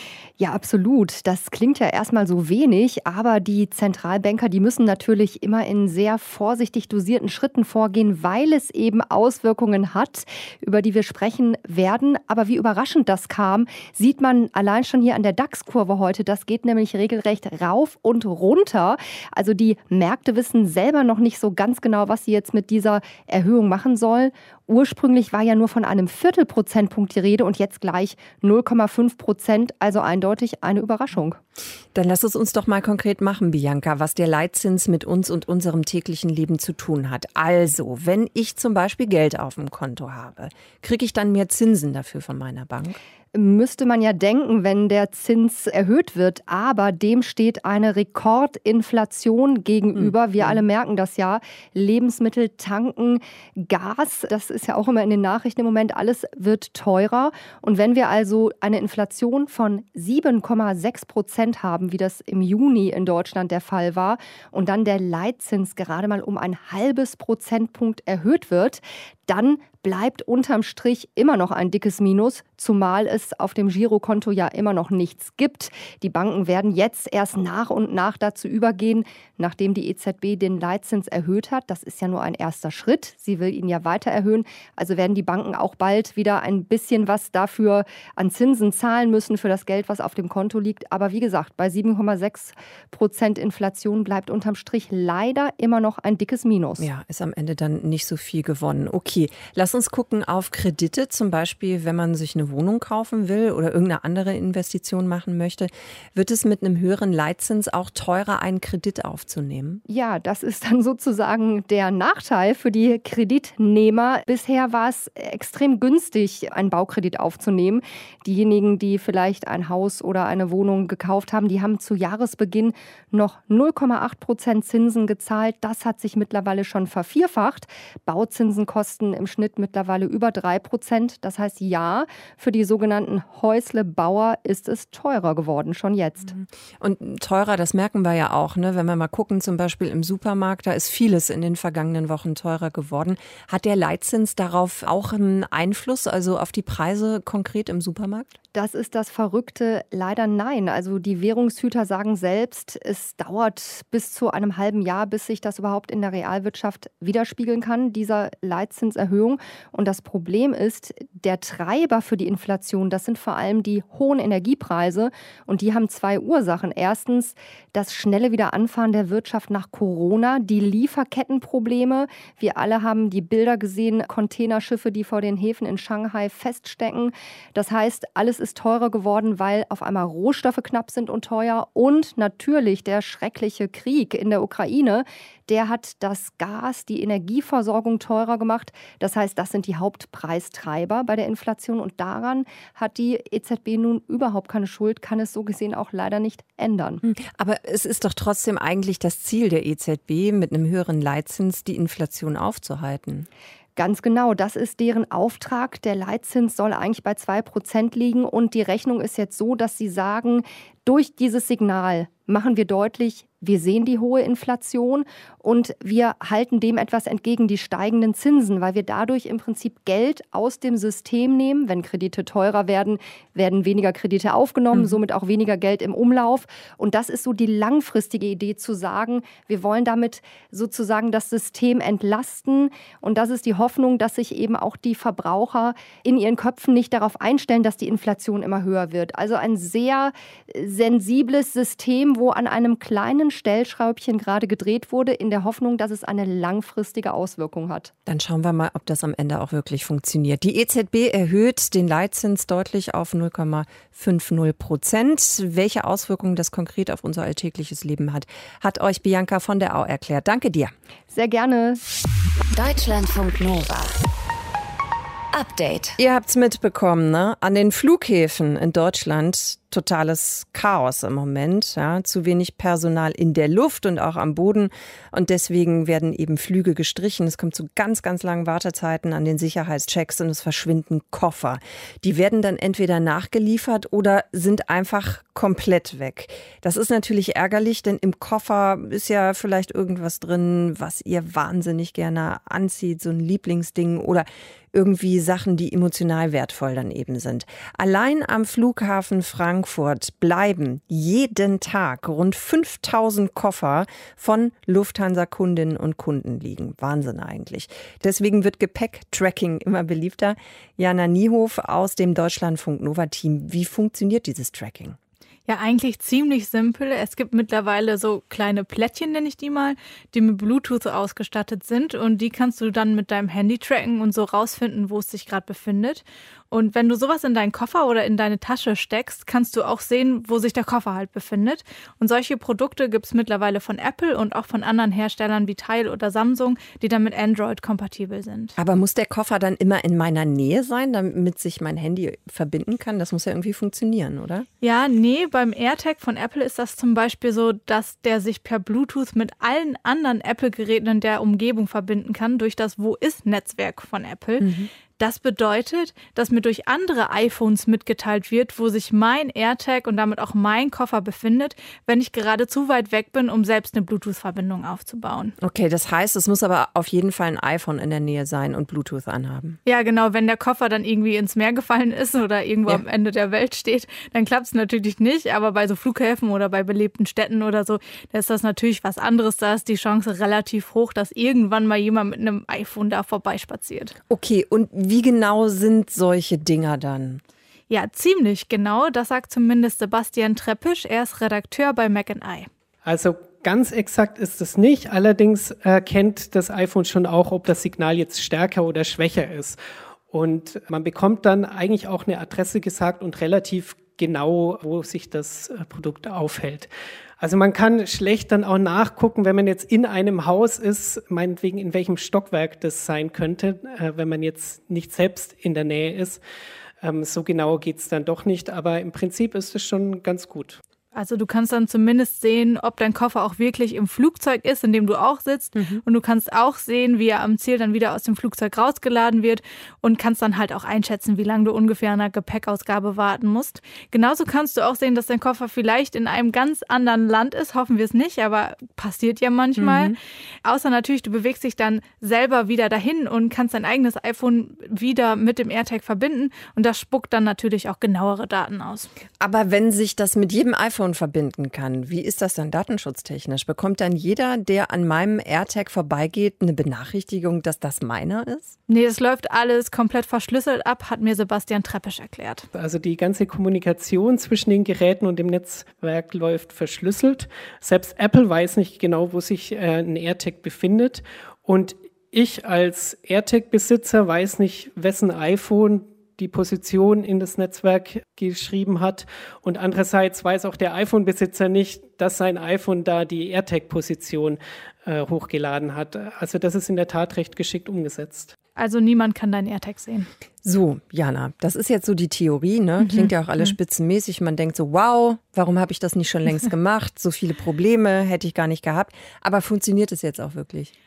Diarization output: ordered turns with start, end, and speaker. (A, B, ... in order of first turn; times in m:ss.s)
0:00.4-0:31.4 A
0:31.9-0:43.0 B
0:43.3-1:36.9 A
0:50.0-0:50.6 B
1:36.8-1:49.8 B
1:49.9-2:16.3 A
2:16.3-2:28.3 B
2:28.5-3:17.0 A
3:17.0-3:23.3 B
3:23.8-4:07.9 A
3:44.7-3:45.0 B
4:08.0-4:20.7 B
4:21.1-4:21.8 A
4:22.5-4:23.9 C
4:25.3-4:26.0 C
4:26.0-5:15.0 B
5:15.5-5:38.5 D
5:38.6-5:44.4 B
5:44.6-6:05.3 D
5:54.4-5:54.7 B
6:05.4-6:09.6 B
6:09.6-6:23.9 D
6:24.1-6:27.2 B
6:27.7-6:32.5 D
6:32.8-6:39.6 E
6:40.1-6:56.2 E
6:56.8-7:00.6 E
7:00.9-7:28.9 D
7:05.5-7:05.8 B
7:19.6-7:20.0 B
7:29.2-7:38.5 B
7:38.7-7:42.5 D
7:42.5-8:08.3 E
8:08.6-8:10.1 D
8:10.4-8:20.7 B
8:12.8-8:13.5 D